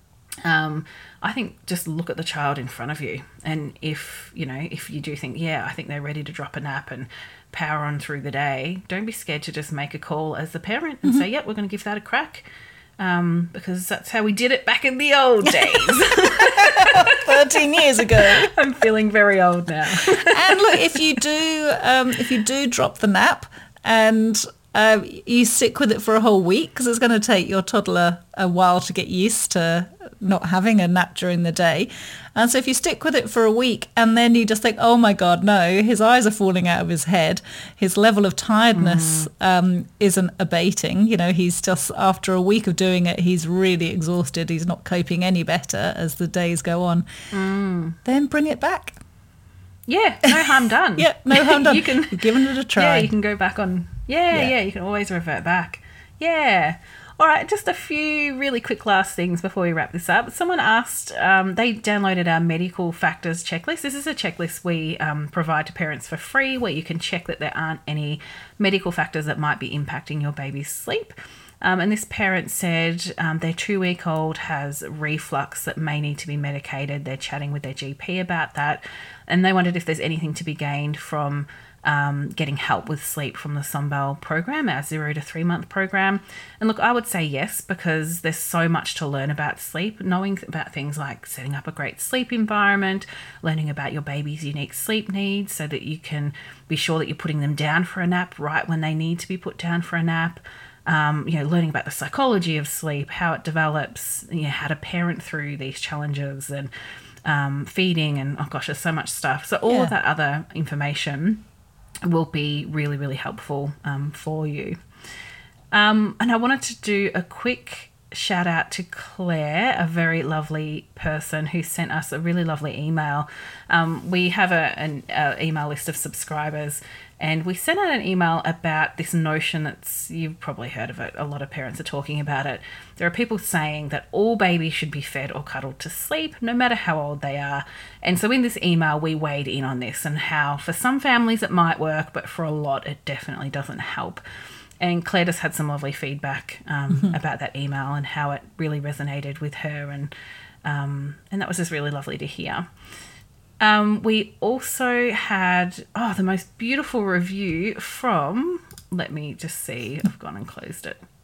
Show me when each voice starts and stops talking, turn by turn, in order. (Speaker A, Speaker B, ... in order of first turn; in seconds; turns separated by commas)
Speaker A: 0.4-12.4, Speaker A: 13.0-20.9, Speaker B: 15.4-18.5, Speaker B: 20.1-47.1, Speaker A: 38.7-39.3, Speaker A: 47.3-48.0, Speaker B: 48.0-49.0, Speaker A: 49.9-106.7, Speaker B: 51.0-53.1, Speaker A: 107.2-111.4, Speaker B: 109.7-109.9, Speaker A: 112.0-114.8, Speaker A: 115.7-144.2, Speaker A: 144.8-150.1, Speaker A: 150.6-152.7, Speaker A: 153.6-161.0